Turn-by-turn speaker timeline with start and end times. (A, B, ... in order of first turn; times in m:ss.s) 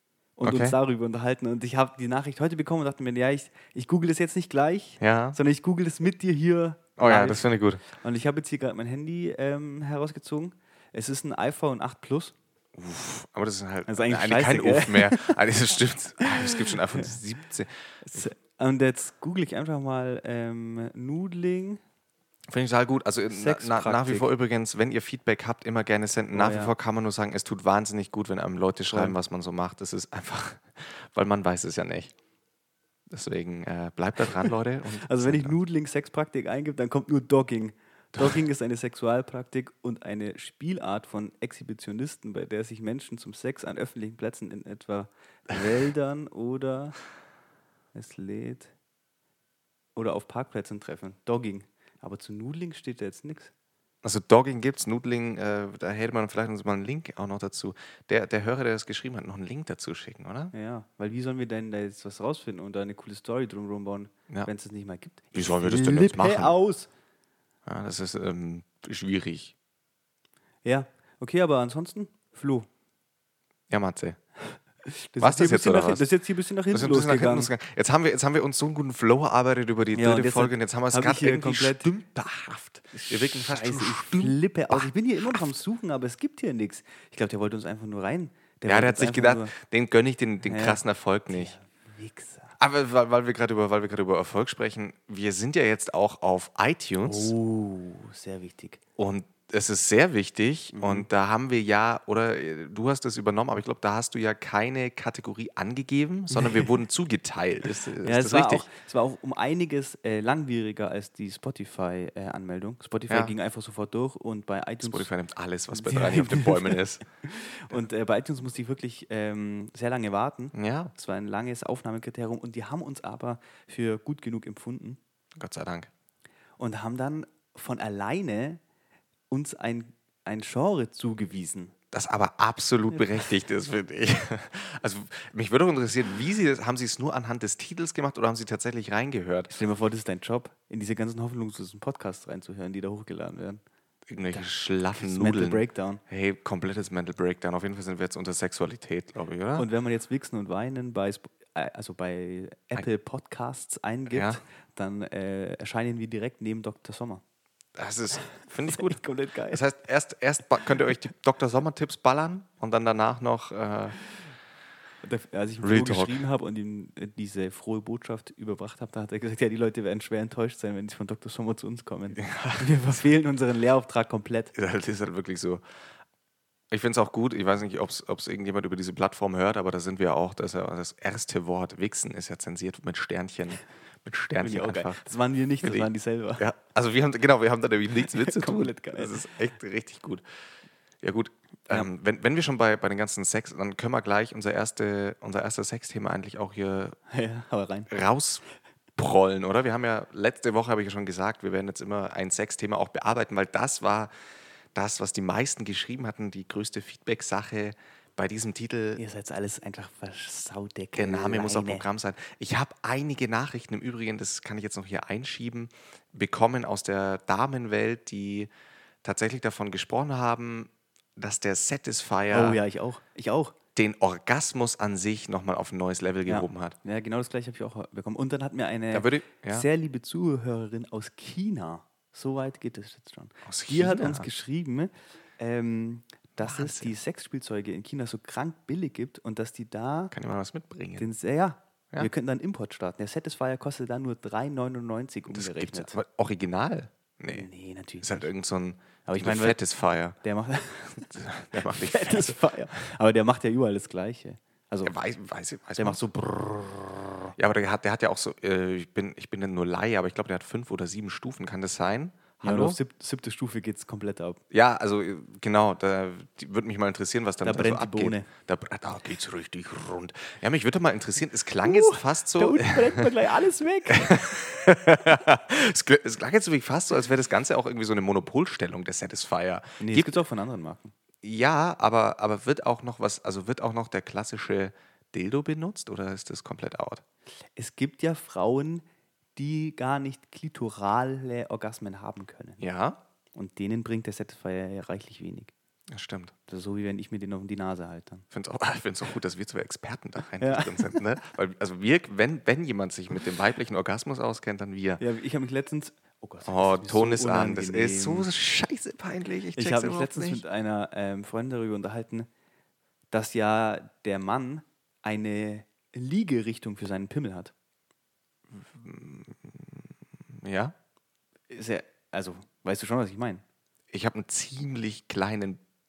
0:00.4-0:12.3 A
0:00.4-0:00.8 B
0:05.0-0:05.4 B
0:07.0-0:07.8 B
0:12.7-0:18.3 B
0:13.9-0:15.4 A
0:16.2-0:17.1 A
0:18.0-0:21.8 A
0:22.5-0:32.1 B
0:23.3-0:24.3 A
0:26.3-0:26.7 A
0:28.9-0:29.1 A
0:33.1-0:35.5 B
0:35.0-0:47.0 A
0:47.9-0:48.7 A
0:50.0-0:53.5 A
0:54.0-1:00.5 B
1:00.5-1:06.9 A
1:05.3-1:06.5 B
1:07.6-1:09.5 B
1:10.6-1:12.7 A
1:13.7-1:14.2 B
1:14.5-1:17.5 A
1:15.2-1:16.0 B
1:16.7-1:25.5 B
1:19.9-1:21.9 A
1:22.9-1:29.5 A
1:28.6-1:31.5 B
1:30.4-1:32.6 A
1:32.6-1:37.3 B
1:37.0-1:38.8 A
1:39.0-1:48.6 B
1:40.7-1:41.1 A
1:46.3-1:46.7 A
1:48.0-1:55.1 A
1:53.1-1:53.3 B
1:54.8-1:57.0 B
1:55.7-2:05.0 A
2:00.5-2:00.9 B
2:05.4-2:05.9 B
2:06.6-2:08.6 A
2:09.3-2:11.7 A
2:11.9-2:19.5 B
2:19.5-2:23.6 A
2:24.1-2:29.7 B
2:24.3-2:26.0 A
2:29.6-2:37.2 A
2:34.1-2:34.4 B
2:37.7-2:44.0 B
2:38.6-2:39.6 A
2:45.0-2:54.5 A
2:45.6-2:46.2 B
2:52.2-2:52.7 B
2:54.5-2:55.6 B
2:56.7-3:05.0 B
3:04.4-3:06.4 A
3:05.6-3:10.2 B
3:08.1-3:09.2 A
3:11.0-3:17.0 B
3:17.1-3:17.9 A
3:17.9-3:18.4 B
3:19.0-3:24.1 B
3:24.7-3:29.0 B
3:29.0-3:31.9 A
3:31.0-3:38.5 B
3:39.0-3:42.6 B
3:42.3-3:43.5 A
3:43.8-3:46.8 B
3:46.2-4:00.1 A
3:48.9-3:49.6 B
3:53.4-3:54.3 B
3:56.4-3:56.9 B
4:00.1-4:01.1 B
4:01.0-4:06.0 A
4:05.3-4:07.5 B
4:07.3-4:08.3 A
4:08.0-4:10.2 B
4:09.0-4:09.6 A
4:10.2-4:14.9 A
4:11.0-4:12.4 B
4:14.8-4:16.0 B
4:15.8-4:16.9 A
4:17.3-4:22.8 B
4:22.4-4:24.4 A
4:24.5-4:33.1 B
4:27.4-4:28.3 A
4:31.6-4:34.2 A
4:33.9-4:40.2 B
4:39.8-4:40.9 A
4:41.2-4:47.0 B
4:47.6-4:48.8 A
4:49.4-4:52.6 A
4:52.6-4:53.0 B
4:53.3-4:55.5 A
4:55.9-4:56.3 B
4:56.5-4:58.2 A
4:58.3-5:05.0 B
5:00.4-5:01.0 A
5:05.0-5:08.3 A
5:06.4-5:10.4 B
5:09.6-5:12.3 A
5:13.1-5:17.5 A
5:18.5-5:20.7 B
5:21.5-5:23.4 A
5:23.9-5:25.6 B